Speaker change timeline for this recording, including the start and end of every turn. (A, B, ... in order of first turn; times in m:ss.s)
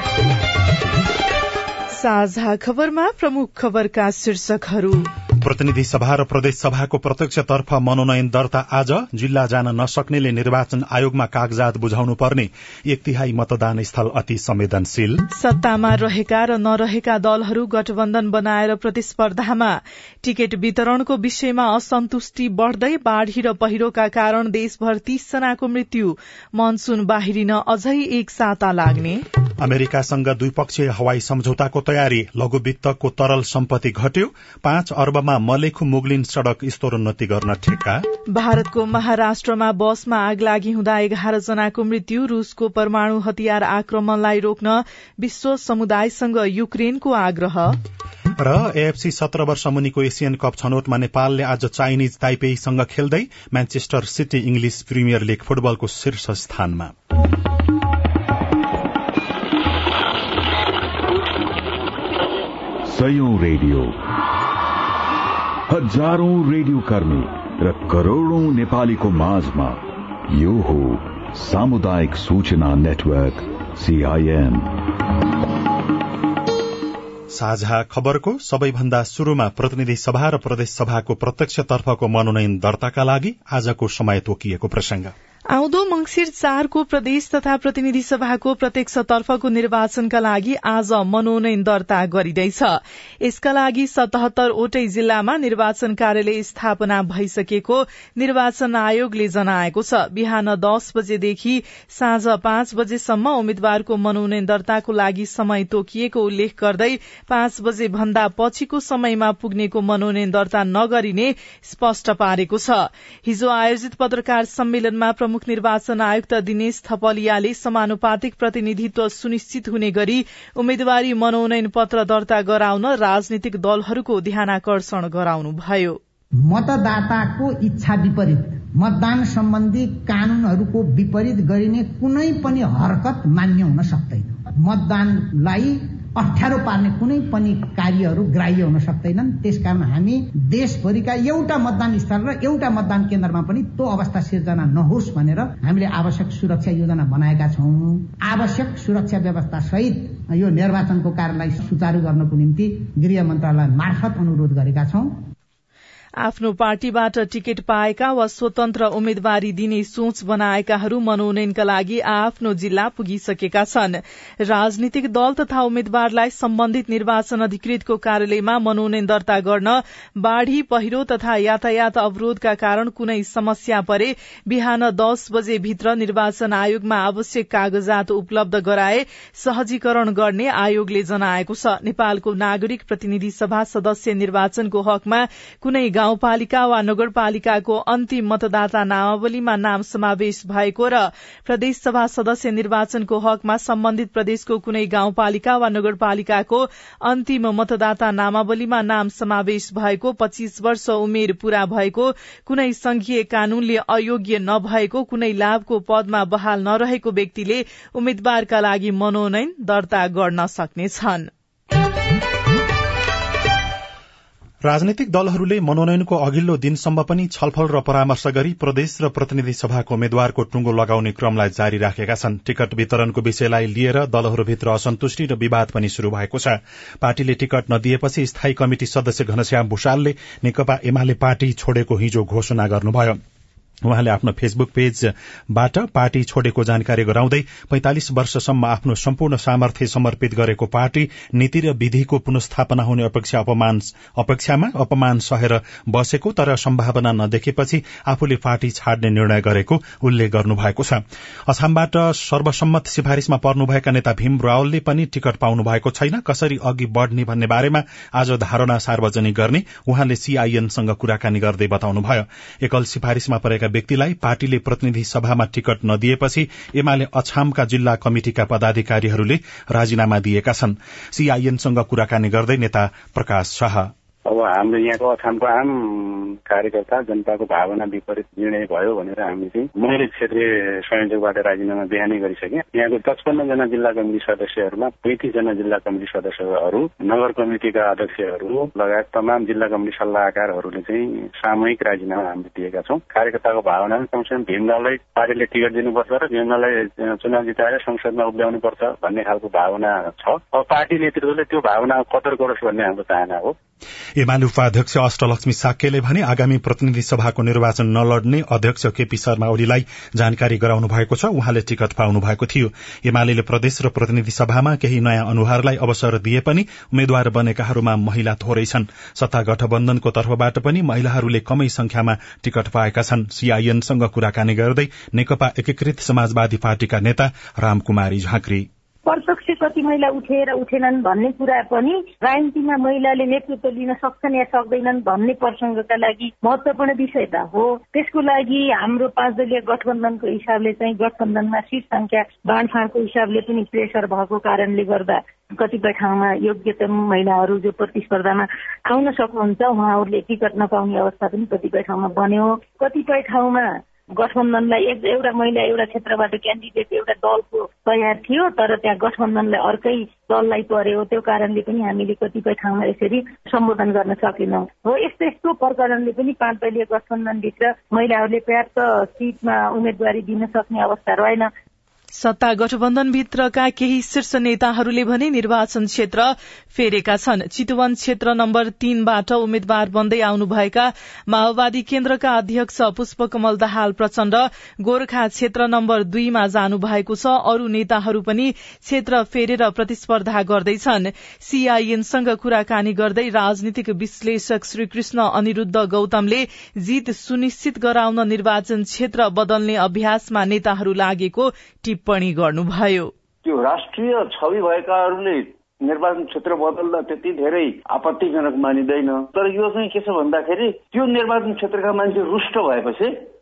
0:01.9-0:05.0 A
0:05.4-0:15.2 B
0:15.3-0:29.2 A
0:29.6-0:38.1 B
0:38.3-0:47.7 A
0:48.4-0:56.9 B
1:02.9-1:04.0 C
1:05.7-1:14.7 C
1:17.3-1:25.1 B
1:25.5-2:06.0 A
2:06.4-2:35.1 D
2:36.2-3:31.3 A
3:34.6-3:53.2 B
3:53.8-4:33.9 B
4:34.3-5:03.6 E
5:04.2-5:28.7 B
5:29.1-6:11.5 F
6:12.2-6:43.1 A
6:43.4-6:53.1 G